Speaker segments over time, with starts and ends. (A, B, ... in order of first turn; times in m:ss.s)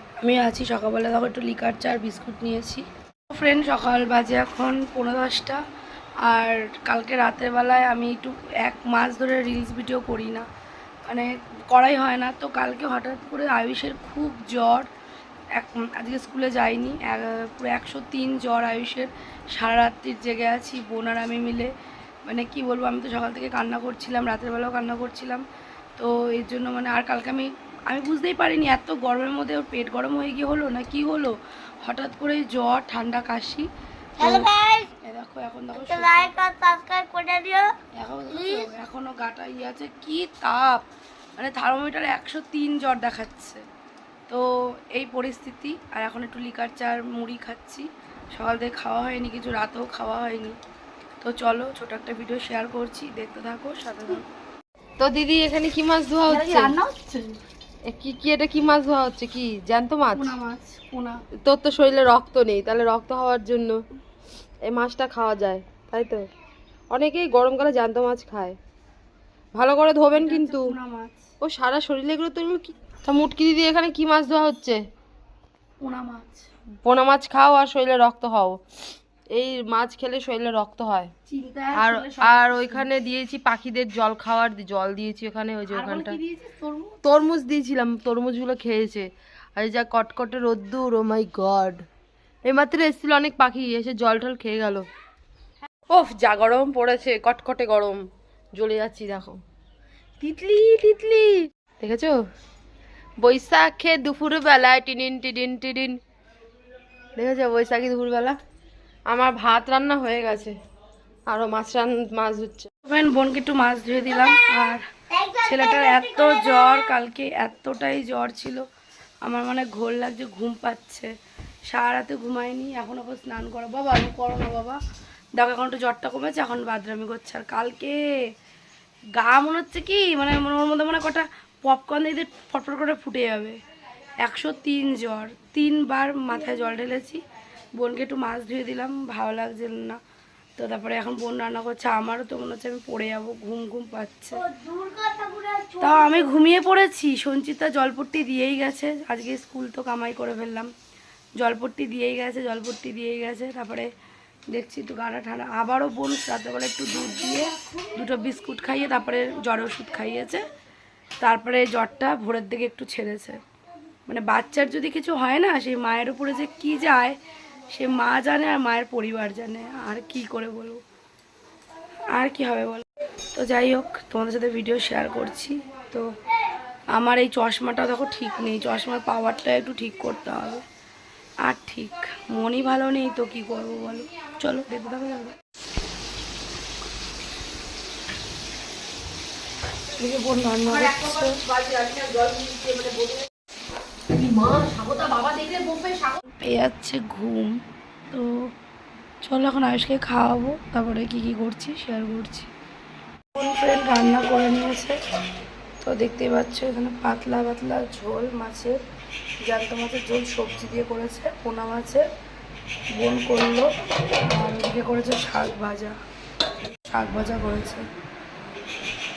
0:00.2-0:05.6 A
0:06.2-0:10.4 A
0:11.0-0:14.9 A
0:15.5-0:21.7 A
0:22.2-0:25.4 A
0:26.0-0:36.3 A
0:34.2-0:34.9 B
0:35.7-0:37.7 B
0:37.9-0:40.8 A
0:38.3-0:38.7 B
0:41.4-0:43.6 A
0:44.3-0:50.6 A
0:51.2-0:54.2 A
0:55.0-0:56.7 C
0:56.3-0:57.3 A
0:57.9-1:00.3 C
1:00.1-1:01.2 A
1:01.4-1:03.8 C
1:04.6-1:06.2 C
1:06.9-1:08.6 C
1:09.5-1:10.7 C
1:10.1-1:11.2 A
1:11.4-1:14.8 C
1:15.8-1:16.4 A
1:16.8-1:18.6 C
1:19.3-1:21.1 C
1:21.3-1:22.9 A
1:21.7-1:26.2 C
1:25.7-1:27.0 A
1:27.0-1:31.8 C
1:32.4-1:34.8 C
1:35.9-1:39.4 C
1:40.2-1:42.2 C
1:43.2-1:46.0 C
1:47.2-1:48.4 C
1:49.1-1:50.5 C
1:51.3-1:52.7 C
1:52.8-1:54.8 A
1:55.1-1:56.8 B
1:55.3-1:58.6 A
1:59.2-2:01.1 A
2:01.7-2:04.8 A
2:05.4-2:08.0 A
2:09.1-2:13.6 A
2:14.2-2:17.2 A
2:17.8-2:20.0 A
2:20.6-2:24.5 A
2:24.4-2:26.3 B
2:25.8-2:30.7 A
2:31.4-2:33.9 A
2:34.5-2:40.4 A
2:41.2-2:43.4 A
2:44.1-2:47.2 A
2:47.7-2:50.8 A
2:52.1-2:56.1 A
2:56.9-3:00.6 A
3:01.4-3:05.3 A
3:09.9-3:11.4 A
3:10.6-3:13.2 C
3:14.1-3:16.2 C
3:16.4-3:17.6 A
3:18.1-3:18.5 A
3:19.2-3:22.5 A
3:23.3-3:24.9 A
3:25.8-3:28.8 A
3:29.4-3:32.0 A
3:32.9-3:33.7 A
3:34.2-3:36.0 A
3:36.9-3:37.8 A